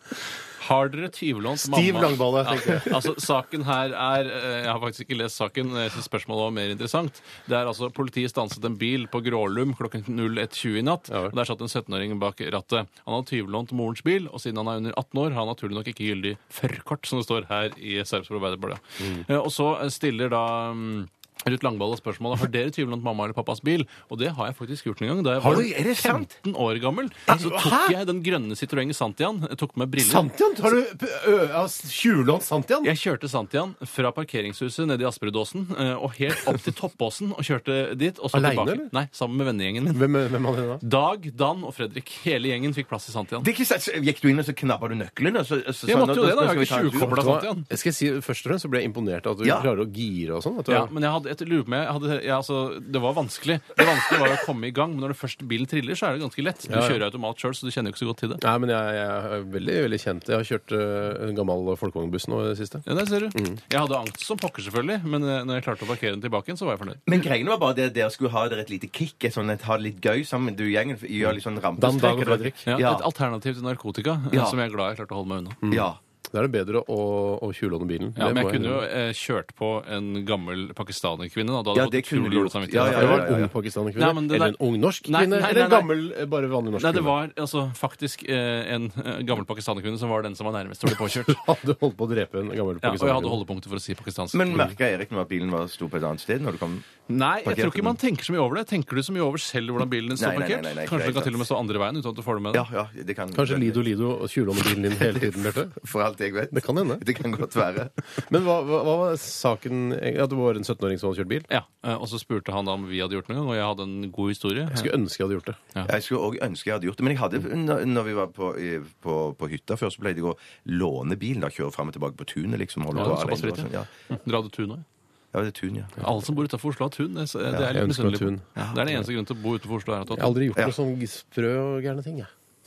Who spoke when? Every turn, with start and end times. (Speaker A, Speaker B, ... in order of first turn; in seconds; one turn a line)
Speaker A: 0.6-30.3
Speaker B: 1.6-3.0
Speaker C: 25.4-26.3
Speaker B: 27.3-27.9
Speaker B: 30.0-32.9
Speaker A: 32.8-40.1
Speaker B: 38.3-38.9
Speaker B: 39.9-40.8
Speaker A: 40.8-43.5
Speaker C: 43.4-47.3
Speaker A: 45.9-47.7
Speaker B: 47.1-50.9
Speaker C: 49.4-49.7
Speaker A: 50.7-58.4
Speaker B: 56.7-57.0
Speaker B: 58.4-63.6
Speaker A: 62.9-67.0
Speaker C: 67.0-73.0
Speaker B: 71.8-72.7
Speaker A: 72.7-75.6
Speaker C: 74.3-74.6
Speaker B: 75.6-78.8
Speaker C: 75.7-76.0
Speaker A: 78.2-83.4
Speaker C: 81.7-83.5
Speaker B: 82.8-87.1
Speaker A: 84.0-85.9
Speaker A: 86.8-91.4
Speaker B: 91.0-93.4
Speaker A: 92.8-94.7
Speaker C: 94.3-96.9
Speaker A: 97.1-102.7
Speaker C: 97.4-98.0
Speaker C: 100.1-101.4
Speaker C: 102.5-103.8
Speaker B: 103.3-105.8
Speaker C: 104.8-107.9
Speaker B: 106.5-107.0
Speaker B: 108.3-111.5
Speaker A: 111.5-114.9
Speaker B: 114.7-115.6
Speaker C: 115.8-123.9
Speaker A: 122.9-124.8
Speaker C: 125.3-126.0
Speaker A: 126.0-130.4
Speaker B: 127.7-129.0
Speaker B: 130.1-132.3